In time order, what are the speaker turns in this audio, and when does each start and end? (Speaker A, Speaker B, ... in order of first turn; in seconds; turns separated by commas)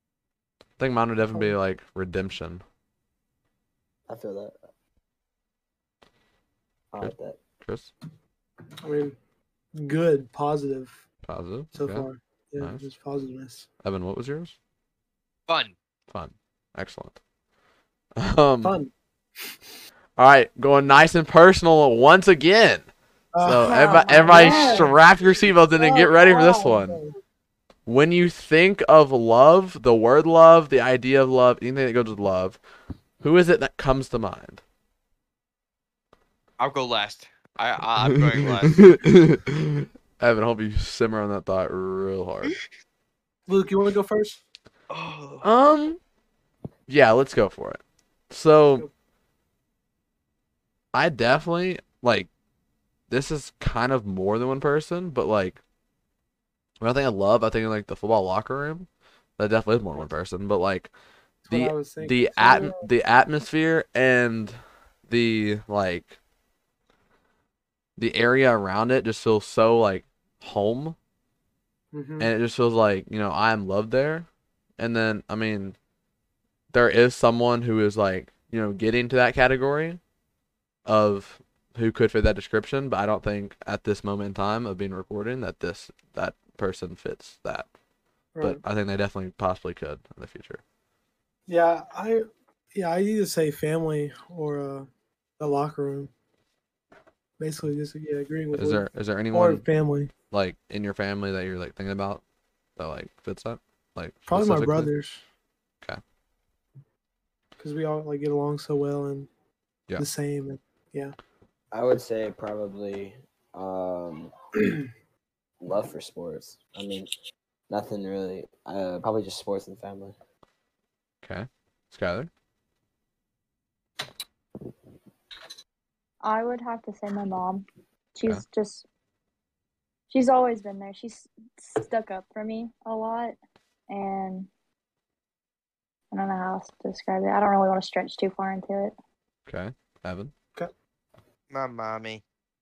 Speaker A: 0.8-2.6, Speaker B: 4.1-4.6, Speaker B: 6.9-7.4, Speaker A: 7.0-7.9, Speaker C: 8.8-9.2, Speaker C: 9.8-11.0, Speaker A: 11.3-12.1, Speaker C: 11.7-13.7, Speaker A: 13.8-14.6, Speaker D: 15.5-15.8, Speaker A: 16.1-17.2, Speaker A: 18.2-18.8, Speaker C: 18.6-18.9, Speaker A: 20.2-22.9, Speaker C: 23.3-27.2, Speaker A: 23.4-27.0, Speaker E: 23.6-24.9, Speaker A: 27.9-32.6, Speaker A: 33.2-34.6, Speaker D: 36.6-39.0, Speaker A: 38.3-42.6, Speaker C: 43.5-44.4, Speaker D: 44.9-45.5, Speaker A: 45.4-46.0, Speaker A: 46.9-48.9, Speaker A: 50.9-52.3, Speaker A: 53.1-55.6, Speaker A: 56.8-60.9, Speaker C: 61.5-62.8, Speaker A: 61.5-66.2, Speaker A: 68.0-71.0, Speaker C: 71.9-72.3, Speaker A: 72.2-74.3, Speaker A: 74.8-75.8, Speaker A: 76.7-80.0, Speaker A: 80.9-87.7, Speaker C: 88.3-88.6, Speaker A: 88.4-90.6, Speaker C: 91.5-96.1, Speaker C: 97.4-100.1, Speaker A: 98.5-99.6, Speaker A: 100.3-102.2, Speaker A: 102.8-104.9, Speaker C: 104.3-105.2, Speaker C: 107.6-109.3, Speaker C: 110.0-111.2, Speaker B: 111.7-114.3, Speaker B: 115.6-117.1, Speaker B: 117.7-120.2, Speaker A: 121.2-122.3, Speaker E: 126.2-128.8, Speaker E: 130.1-133.3, Speaker E: 133.9-134.5, Speaker E: 136.1-138.9, Speaker A: 139.5-140.3, Speaker D: 141.5-142.2